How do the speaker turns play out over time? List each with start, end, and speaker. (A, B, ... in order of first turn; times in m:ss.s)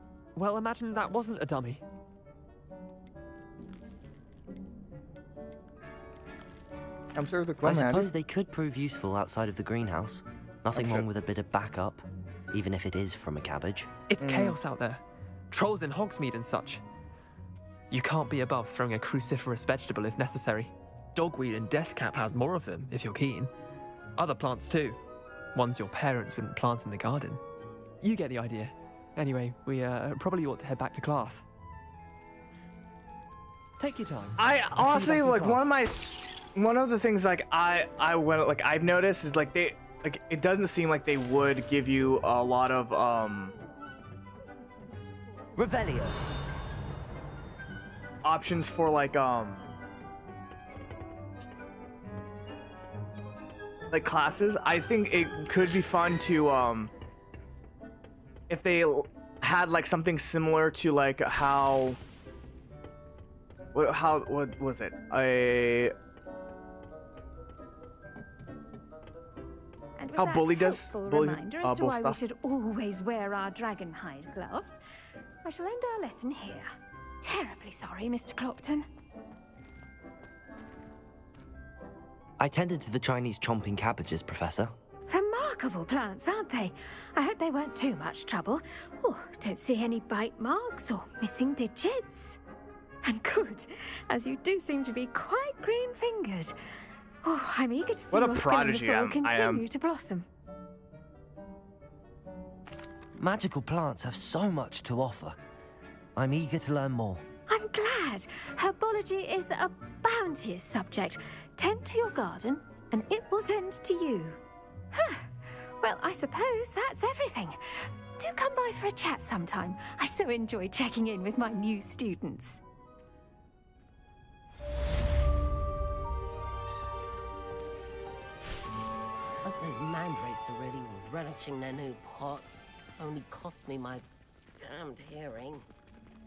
0:00.4-0:01.8 A
0:07.2-0:08.1 B
0:07.6-0:13.9 C
0:10.8-0:11.1 B
0:14.1-0:16.8 A
0:14.2-0:14.6 B
0:17.9-0:23.5 A
0:24.2-0:25.0 A
0:25.6-0:27.4 A
0:28.0-0:31.4 A
0:33.8-0:35.7 A
0:34.4-0:43.5 B
0:45.6-0:46.2 C
0:48.2-0:49.6 B
0:53.9-0:56.9 B
0:58.5-1:02.0 B
1:03.7-1:05.9 B
1:10.0-1:14.8 D
1:10.2-1:12.2 B
1:15.4-1:18.9 D
1:22.4-1:24.7 C
1:25.1-1:32.4 D
1:33.0-1:36.6 D
1:37.2-1:40.3 D
1:38.1-1:39.6 B
1:43.2-1:45.4 C
1:46.2-1:47.2 C
1:47.5-1:54.4 D
1:54.9-2:02.6 D
2:09.4-2:14.0 E
2:14.6-2:15.6 E